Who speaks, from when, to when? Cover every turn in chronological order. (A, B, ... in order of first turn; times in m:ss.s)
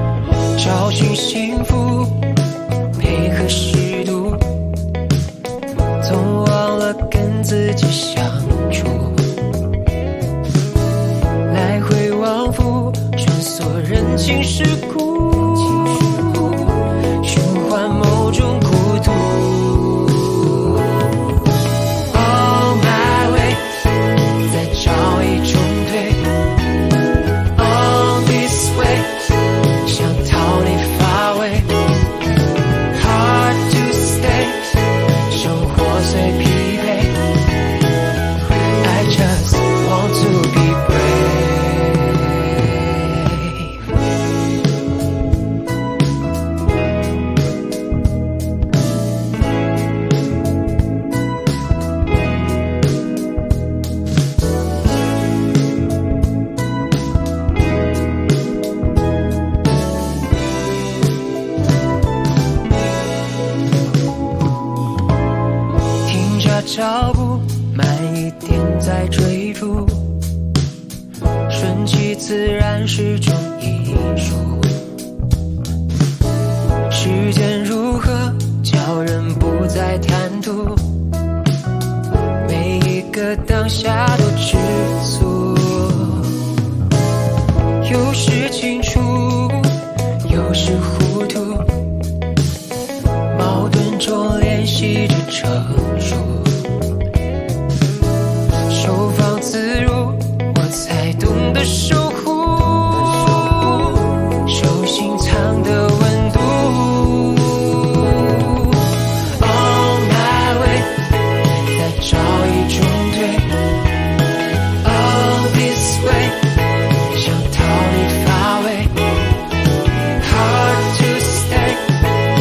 0:00.6-0:02.2 A
0:03.0-0:04.4 A
0:06.0-0:09.3 A
0:11.5-0:21.0 A
0:22.1-0:23.6 A
0:24.5-0:26.3 A
0:27.6-0:29.2 A
0:29.8-0:31.7 A
0:32.9-0:34.7 A
0:35.3-0:37.2 A
0:38.8-0:43.8 A
1:06.0-1:10.1 A
1:11.5-1:14.7 A
1:16.9-1:20.8 A
1:22.4-1:26.3 A
1:27.8-1:29.7 A
1:30.2-1:31.7 A
1:33.3-1:36.6 A
1:38.7-1:48.8 A
1:49.4-1:50.9 A
1:51.7-1:53.5 A
1:54.8-1:56.4 A
1:57.1-1:58.9 A
2:00.2-2:01.8 A